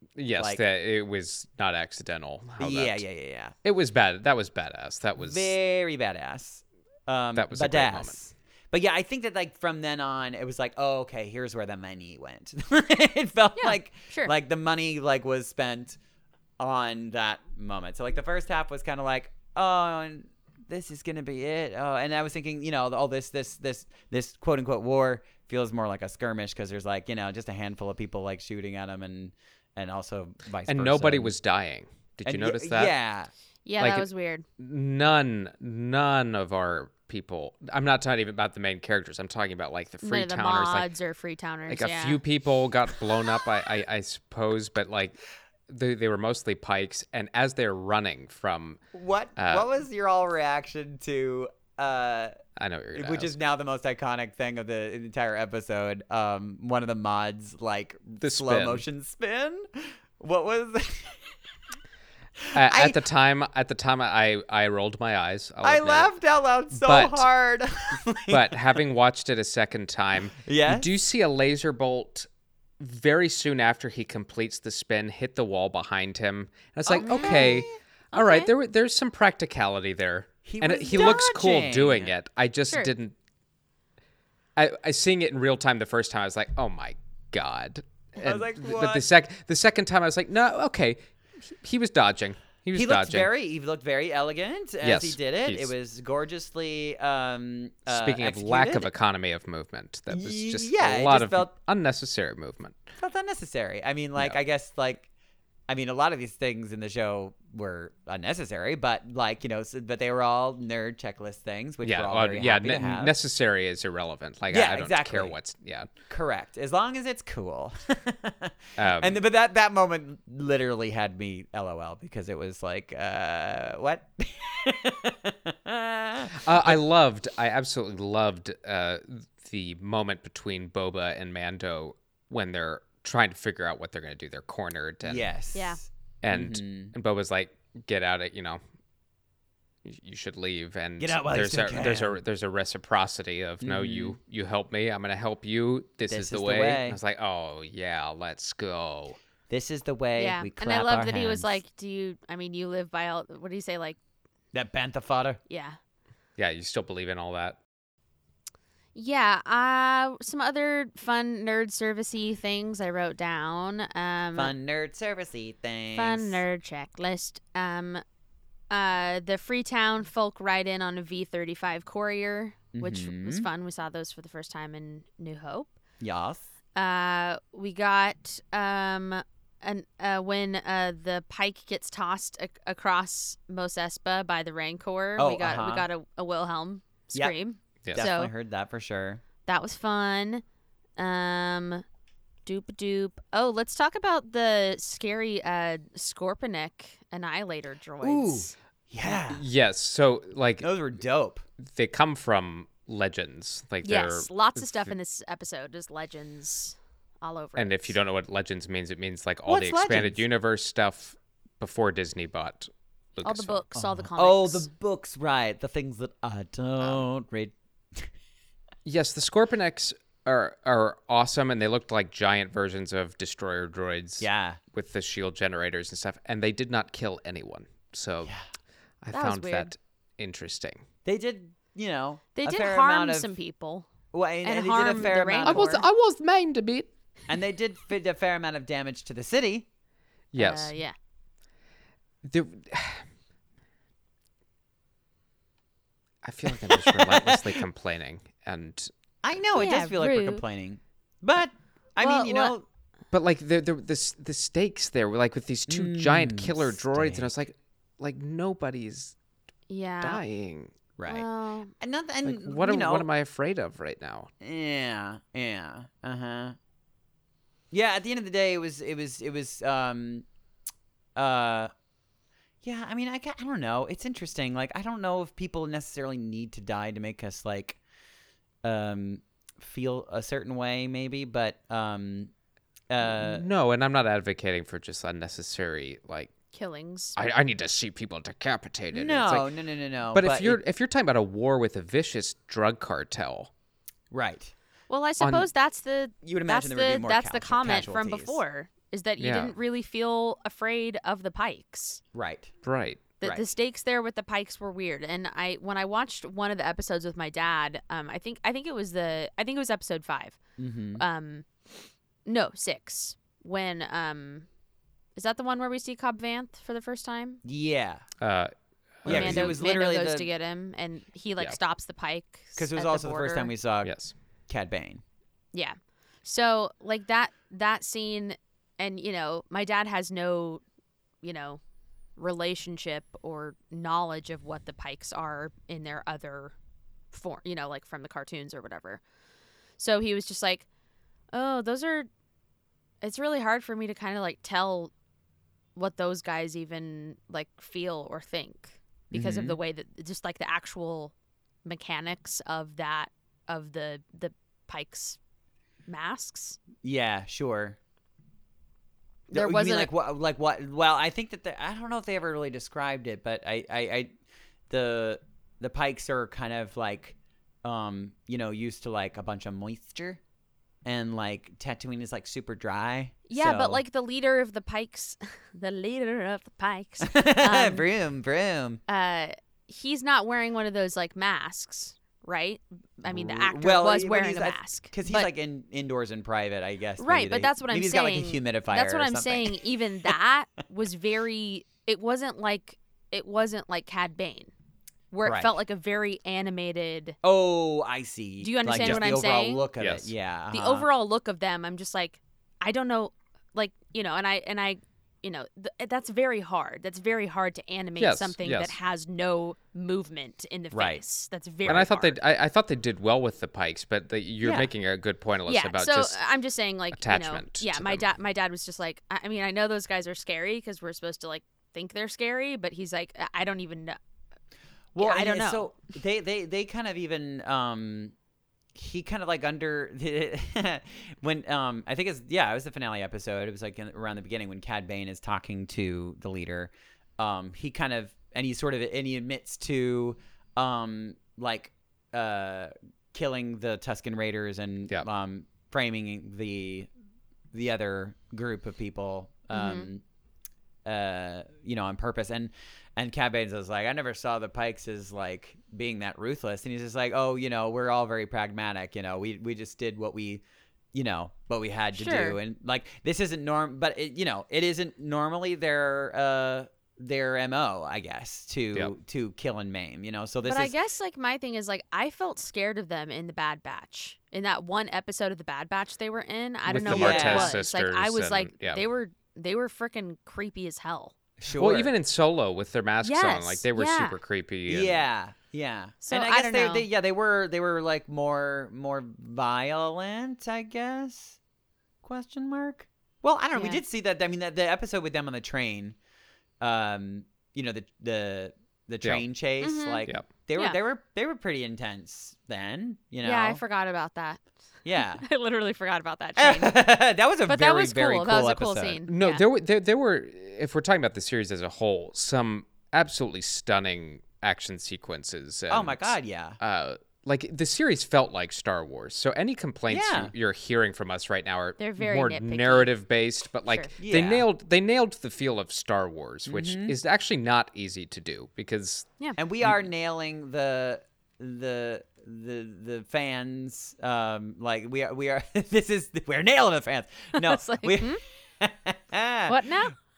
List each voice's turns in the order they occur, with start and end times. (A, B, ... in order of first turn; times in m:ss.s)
0:00.2-0:03.0 A
0:02.6-0:03.5 B
0:03.6-0:05.5 A
0:05.2-0:16.0 B
0:07.3-0:08.2 A
0:13.6-0:14.3 C
0:16.6-0:31.3 B
0:30.6-0:32.9 A
0:32.2-0:33.3 B
0:33.6-0:34.4 C
0:33.8-0:34.1 A
0:34.6-0:40.9 A
0:40.0-0:42.2 C
0:41.7-0:45.2 A
0:45.7-0:48.8 A
0:48.9-0:52.4 B
0:49.4-0:49.7 A
0:52.6-0:53.4 A
0:52.9-1:01.3 B
0:58.2-0:58.8 A
1:02.4-1:03.0 B
1:02.5-1:06.1 A
1:05.6-1:08.8 B
1:06.7-1:07.3 A
1:08.3-1:12.3 A
1:10.4-1:10.9 B
1:12.8-1:23.2 A
1:16.8-1:17.7 B
1:17.0-1:18.5 C
1:20.4-1:22.1 B
1:24.6-1:33.3 A
1:28.2-1:29.0 B
1:32.7-1:38.9 B
1:34.8-1:35.7 A
1:37.9-1:42.8 A
1:40.1-1:41.5 B
1:43.0-1:45.1 B
1:45.7-1:53.1 B
1:51.8-1:55.9 A
1:54.5-1:55.4 B
1:56.1-2:06.8 B
1:58.8-1:59.2 A
2:06.3-2:15.2 A
2:15.0-2:16.9 B
2:15.5-2:15.8 C
2:16.2-2:18.6 A
2:19.8-2:29.2 A
2:21.0-2:22.2 B
2:23.6-2:24.2 B
2:26.1-2:27.0 B
2:29.5-2:31.6 B
2:30.2-2:34.0 C
2:34.5-2:35.4 B
2:35.5-2:35.8 C
2:36.4-2:37.6 A
2:38.9-2:44.5 C
2:44.3-2:46.4 B
2:45.9-2:48.0 C
2:48.7-2:55.7 C
2:52.7-2:53.5 B
2:56.0-2:56.5 B
2:56.8-3:08.3 C
3:05.2-3:05.9 B
3:07.9-3:09.2 B
3:09.4-3:10.4 C
3:11.0-3:11.8 C
3:12.4-3:18.5 C
3:18.0-3:19.4 B
3:19.0-3:20.7 A
3:20.6-3:21.4 B
3:21.6-3:24.9 A
3:23.8-3:28.0 C
3:27.6-3:33.6 A
3:29.5-3:30.2 B
3:33.2-3:34.7 C
3:33.7-3:38.1 B
3:38.8-3:48.3 A
3:44.2-3:44.6 B
3:49.0-3:50.8 A
3:49.1-3:49.7 C
3:51.0-3:53.3 B
3:52.3-3:53.9 C
3:54.1-3:55.7 B
3:54.4-3:55.8 C
3:55.4-3:56.9 A
3:57.3-3:59.7 B
4:00.3-4:00.7 A
4:00.3-4:00.9 C
4:02.2-4:03.0 A
4:06.2-4:08.9 A
4:06.5-4:07.6 B
4:09.2-4:12.6 B
4:09.5-4:10.4 C
4:12.0-4:12.5 C
4:13.1-4:19.1 A
4:15.7-4:17.3 B
4:19.7-4:20.2 C
4:20.0-4:20.7 A
4:21.0-4:21.3 B
4:21.1-4:21.7 C
4:21.8-4:23.1 B
4:22.2-4:24.3 A
4:24.4-4:26.6 B
4:27.7-4:30.2 B
4:31.2-4:31.7 B
4:32.6-4:37.8 B
4:38.6-4:42.3 B
4:42.9-4:43.4 B
4:43.0-4:46.3 A
4:46.5-4:47.2 C
4:47.2-4:49.5 A
4:48.9-4:50.6 B
4:50.1-4:53.5 A
4:54.1-4:54.5 B
4:54.9-5:02.0 C
4:55.2-4:55.5 A
4:56.2-4:58.4 B
4:59.2-4:59.5 A
5:02.1-5:02.5 B
5:02.6-5:03.1 A
5:03.2-5:10.4 C
5:10.6-5:11.0 B
5:11.0-5:11.7 C
5:12.2-5:14.5 C
5:15.2-5:17.4 C
5:17.4-5:18.0 B
5:18.2-5:19.6 A
5:19.0-5:23.5 C
5:19.0-5:20.3 B
5:22.6-5:23.9 B
5:23.8-5:24.1 A
5:24.5-5:25.0 B
5:25.5-5:30.6 C
5:31.2-5:31.6 C
5:32.2-5:36.5 C
5:37.1-5:39.0 C
5:39.8-5:40.6 C
5:41.3-5:42.1 C
5:43.0-5:44.9 C
5:45.8-5:51.1 C
5:49.1-5:49.6 B
5:51.6-5:55.2 C
5:55.9-5:56.6 C
5:56.8-5:57.8 B
5:59.3-5:59.9 C
5:59.3-6:04.1 B
6:04.7-6:10.2 B
6:10.8-6:13.8 B
6:13.3-6:17.8 C
6:17.0-6:18.8 B
6:18.9-6:25.3 C
6:23.0-6:30.1 B
6:27.0-6:34.5 C
6:35.1-6:37.2 C
6:35.2-6:35.6 B
6:37.2-6:40.9 B
6:38.4-6:39.6 C
6:38.7-6:39.2 A
6:39.8-6:40.1 A
6:40.5-6:52.2 C
6:48.0-6:48.7 A
6:50.7-6:51.0 B
6:51.6-6:56.2 A
6:54.4-6:54.7 B
6:55.5-7:04.0 C
6:56.9-6:58.0 A
7:04.9-7:08.1 B
7:05.0-7:05.7 C
7:08.7-7:26.9 B
7:27.5-7:30.0 B
7:29.5-7:29.9 C
7:30.8-7:40.4 B
7:40.9-7:50.7 B
7:41.9-7:42.4 C
7:50.4-8:01.1 C
7:56.7-7:58.9 A
7:56.7-7:57.6 B
8:01.4-8:01.9 B
8:01.6-8:05.0 A
8:03.0-8:04.2 C
8:04.7-8:11.4 B
8:06.0-8:06.9 C
8:12.0-8:16.0 B
8:13.5-8:13.8 C
8:16.6-8:23.6 B
8:19.6-8:20.8 C
8:23.2-8:24.4 C
8:24.8-8:25.2 B
8:25.0-8:26.8 C
8:26.4-8:29.0 B
8:27.5-8:29.4 C
8:29.1-8:49.1 A
8:35.7-8:36.6 B
8:39.9-8:40.3 B
8:41.8-8:42.9 C
8:43.7-8:43.9 C
8:44.0-8:44.4 B
8:46.4-8:46.9 B
8:49.4-8:59.7 B
8:57.4-8:58.2 C
8:59.5-9:00.0 C